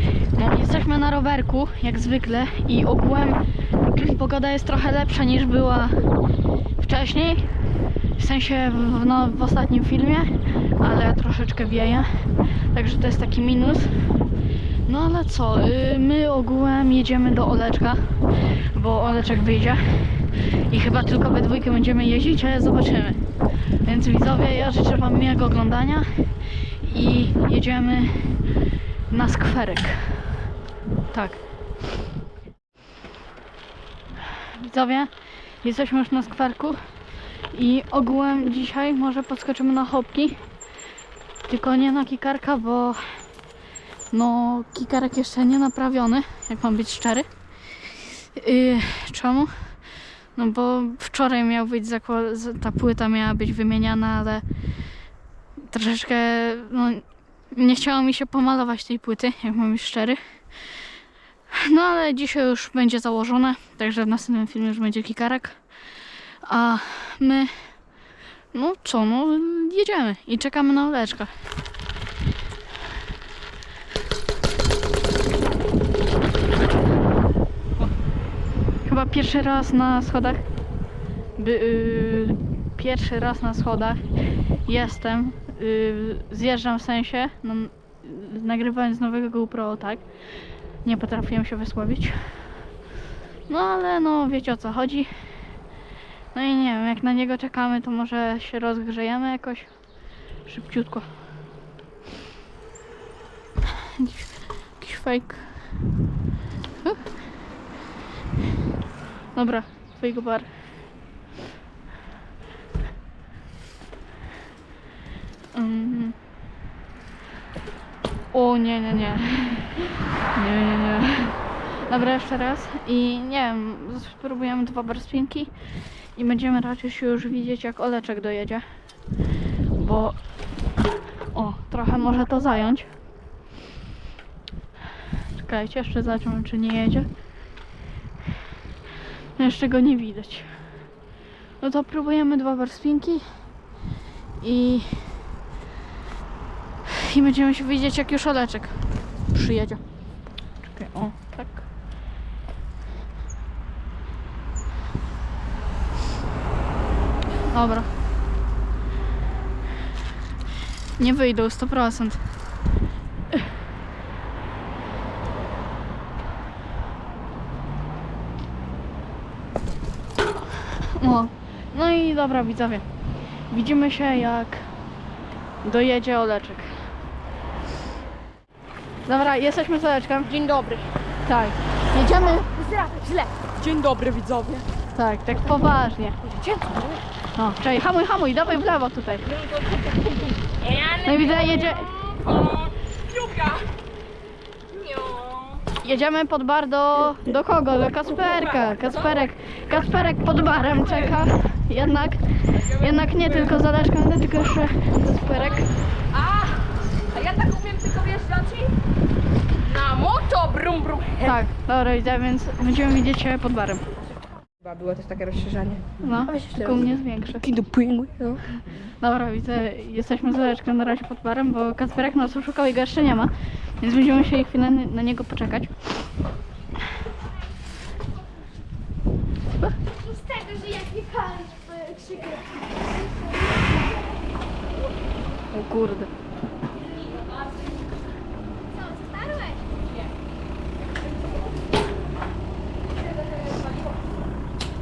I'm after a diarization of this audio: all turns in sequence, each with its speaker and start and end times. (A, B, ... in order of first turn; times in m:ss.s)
0:00.3-0:06.0 A
0:06.8-0:07.5 A
0:08.2-0:12.1 A
0:12.6-0:14.2 A
0:14.8-0:23.2 A
0:23.8-0:28.4 A
0:29.1-0:30.3 A
0:31.1-0:31.4 A
0:34.5-0:35.1 A
0:35.6-0:36.8 A
0:37.4-0:40.4 A
0:41.5-0:43.2 A
0:44.1-0:47.3 A
0:48.2-0:54.4 A
0:55.6-1:00.6 A
1:01.5-1:05.6 A
1:06.4-1:07.5 A
1:08.5-1:11.3 A
1:18.8-1:20.4 A
1:21.4-1:24.0 A
1:24.6-1:30.1 A
1:30.8-1:32.6 A
1:33.5-1:35.1 A
1:36.3-1:39.7 A
1:40.4-1:41.0 A
1:43.8-1:45.7 A
1:49.3-1:50.5 A
1:55.5-1:56.2 A
1:58.3-1:59.8 A
2:00.3-2:05.5 A
2:06.1-2:08.7 A
2:09.8-2:10.2 A
2:11.3-2:12.9 A
2:15.3-2:17.1 A
2:19.4-2:20.5 A
2:21.6-2:23.3 A
2:24.4-2:25.3 A
2:26.8-2:29.8 A
2:30.6-2:31.6 A
2:37.5-2:37.9 A
2:41.0-2:42.2 A
2:50.7-2:52.8 A
2:53.5-2:54.7 A
2:55.6-2:56.9 A
2:59.0-3:00.3 A
3:00.2-3:00.9 B
3:01.2-3:02.5 A
3:02.4-3:04.7 B
3:04.9-3:06.2 A
3:06.2-3:07.0 B
3:07.3-3:09.2 A
3:09.2-3:13.7 B
3:11.0-3:11.9 A
3:14.7-3:15.6 B
3:15.8-3:25.7 A
3:18.8-3:19.1 B
3:22.6-3:23.6 B
3:26.1-3:28.8 B
3:29.6-3:31.4 B
3:31.2-3:33.8 A
3:34.6-3:38.4 B
3:36.0-3:37.5 A
3:38.7-3:45.7 A
3:49.9-3:54.9 C
3:55.5-3:56.1 A
3:56.8-3:57.8 B
3:58.7-3:59.8 C
4:03.0-4:04.0 B